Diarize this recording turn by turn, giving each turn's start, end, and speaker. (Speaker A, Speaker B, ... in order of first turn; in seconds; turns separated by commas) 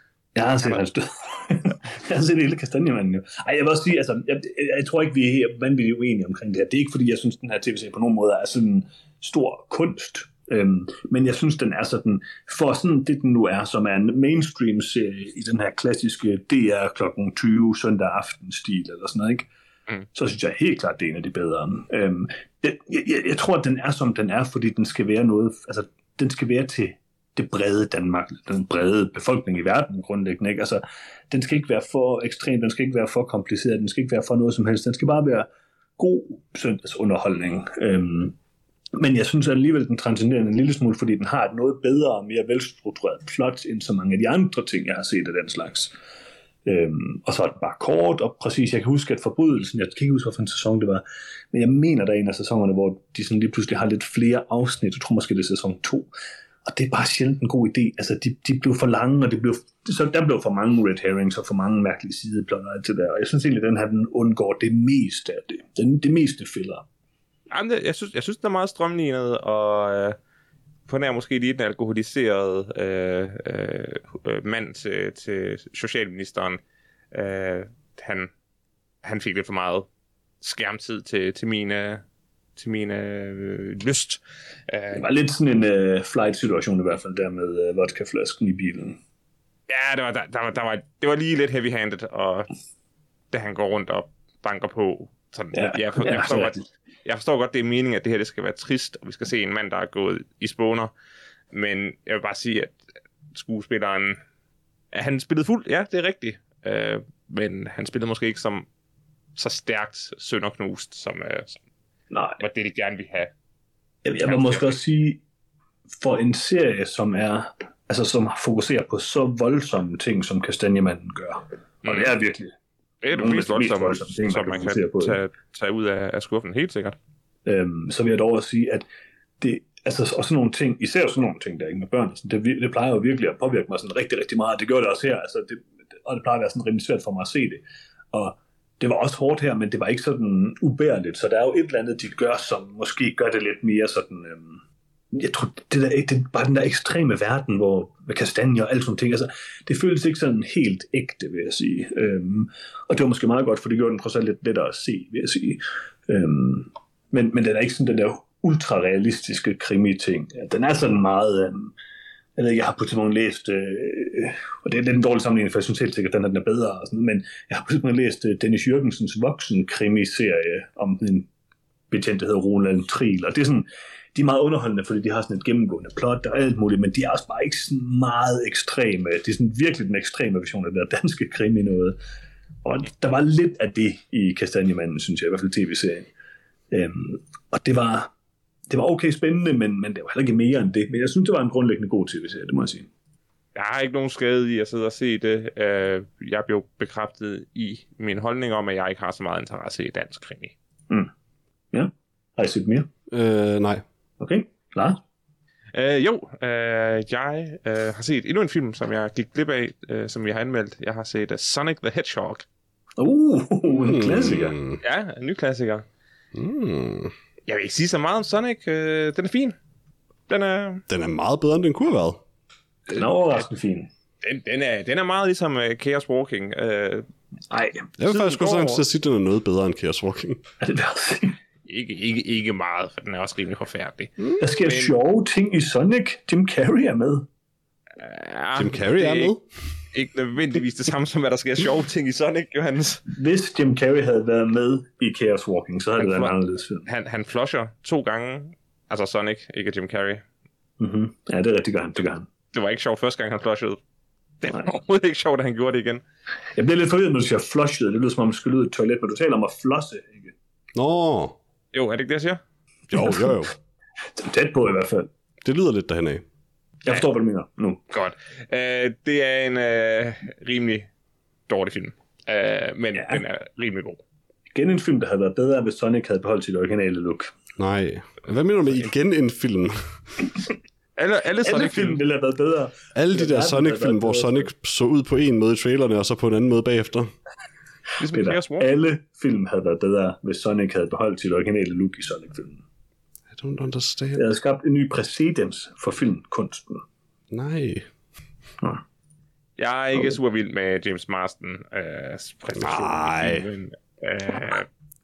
Speaker A: 0.4-19.5, Speaker A: 20.1-35.5, Speaker A: 36.0-38.4, Speaker A: 39.0-45.9, Speaker A: 46.7-56.1, Speaker A: 56.6-66.8, Speaker B: 67.5-70.2, Speaker B: 70.9-76.6, Speaker B: 77.1-78.3, Speaker B: 79.0-79.9, Speaker B: 80.4-82.0, Speaker B: 82.6-85.0, Speaker A: 84.9-89.0, Speaker B: 89.7-92.5, Speaker B: 93.3-100.9, Speaker A: 95.5-96.6, Speaker B: 101.5-102.8, Speaker B: 103.3-104.2, Speaker B: 104.9-108.7, Speaker B: 109.4-111.6, Speaker A: 112.1-112.4, Speaker B: 112.4-113.3, Speaker A: 114.0-115.2, Speaker B: 114.2-114.8, Speaker A: 116.0-122.5, Speaker B: 121.8-122.1, Speaker B: 123.0-127.0, Speaker A: 123.1-125.2, Speaker A: 127.5-128.8, Speaker A: 129.4-137.6, Speaker A: 138.1-144.6, Speaker A: 145.1-161.7, Speaker A: 162.4-171.3, Speaker A: 171.9-182.0, Speaker A: 182.6-186.1, Speaker A: 186.7-188.1, Speaker A: 188.7-192.9, Speaker B: 193.6-200.5, Speaker A: 201.7-202.9, Speaker C: 203.1-203.8, Speaker A: 204.2-205.0, Speaker B: 205.7-212.4, Speaker A: 213.0-214.6, Speaker C: 213.8-214.8, Speaker B: 214.8-215.8, Speaker C: 216.3-217.1, Speaker B: 217.5-219.6, Speaker B: 220.3-220.8, Speaker C: 220.9-222.2, Speaker A: 222.9-223.9, Speaker B: 224.2-227.1, Speaker A: 227.5-228.6, Speaker C: 228.0-230.4, Speaker B: 228.1-228.8, Speaker A: 230.6-231.4, Speaker B: 231.7-235.0, Speaker A: 234.4-237.3, Speaker B: 238.0-239.4, Speaker C: 238.6-239.4, Speaker B: 239.9-243.1, Speaker A: 243.1-246.9, Speaker B: 246.0-246.3, Speaker B: 246.9-250.2, Speaker A: 250.8-252.3, Speaker B: 252.5-253.8, Speaker B: 254.4-256.0, Speaker A: 256.6-260.3, Speaker C: 260.8-261.4, Speaker B: 261.7-262.4, Speaker C: 262.9-263.5, Speaker A: 264.1-265.1, Speaker C: 265.4-266.2, Speaker A: 266.9-267.8, Speaker B: 267.9-270.9, Speaker B: 271.5-274.0, Speaker A: 273.0-273.2, Speaker A: 274.5-277.3, Speaker C: 277.6-279.8, Speaker B: 281.0-282.0, Speaker A: 281.4-284.5, Speaker C: 282.9-287.1, Speaker B: 288.0-288.7, Speaker A: 288.0-292.6, Speaker C: 293.3-294.2, Speaker A: 294.2-296.8, Speaker C: 297.3-297.9, Speaker B: 299.6-304.7, Speaker C: 302.6-303.5